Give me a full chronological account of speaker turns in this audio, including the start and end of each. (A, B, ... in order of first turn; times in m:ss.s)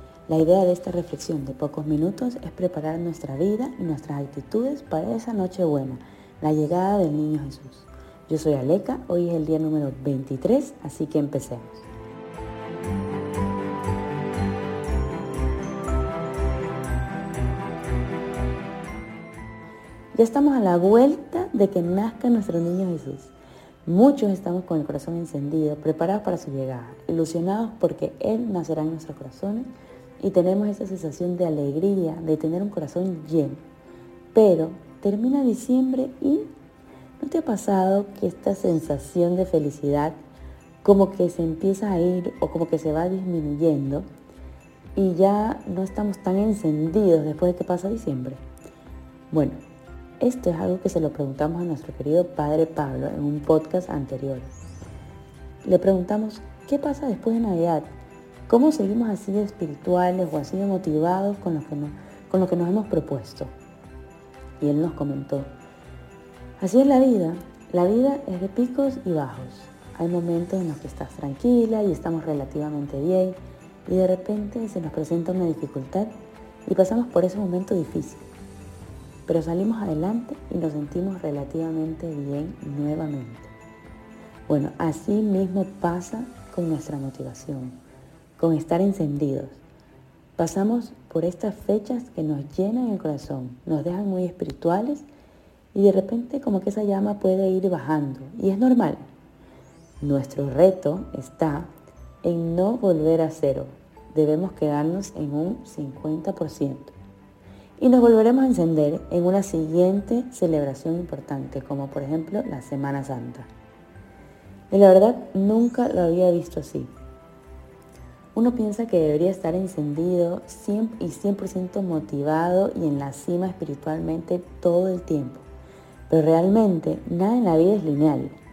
0:00.3-0:11.9 A
0:20.1-0:23.3 A
0:23.8-0:33.6 A
0:34.3-0:36.5 A
0:37.2-0:40.2 A
0:40.8-0:44.1 A
0:45.0-0:48.4 A
0:49.3-0:49.6 A
0:50.2-0:54.5 A
0:55.6-0:57.9 A
0:58.5-1:03.5 A
1:04.6-1:05.5 A
1:06.6-1:16.1 A
1:16.6-1:18.3 A
1:19.2-1:23.5 A
1:24.5-1:27.8 A
1:28.4-1:29.6 A
1:30.4-1:35.0 A
1:35.7-1:39.0 A
1:40.0-1:41.7 A
1:42.2-1:46.9 A
1:47.8-1:53.5 A
1:54.7-1:56.9 A
1:58.3-2:05.4 A
2:06.1-2:08.4 A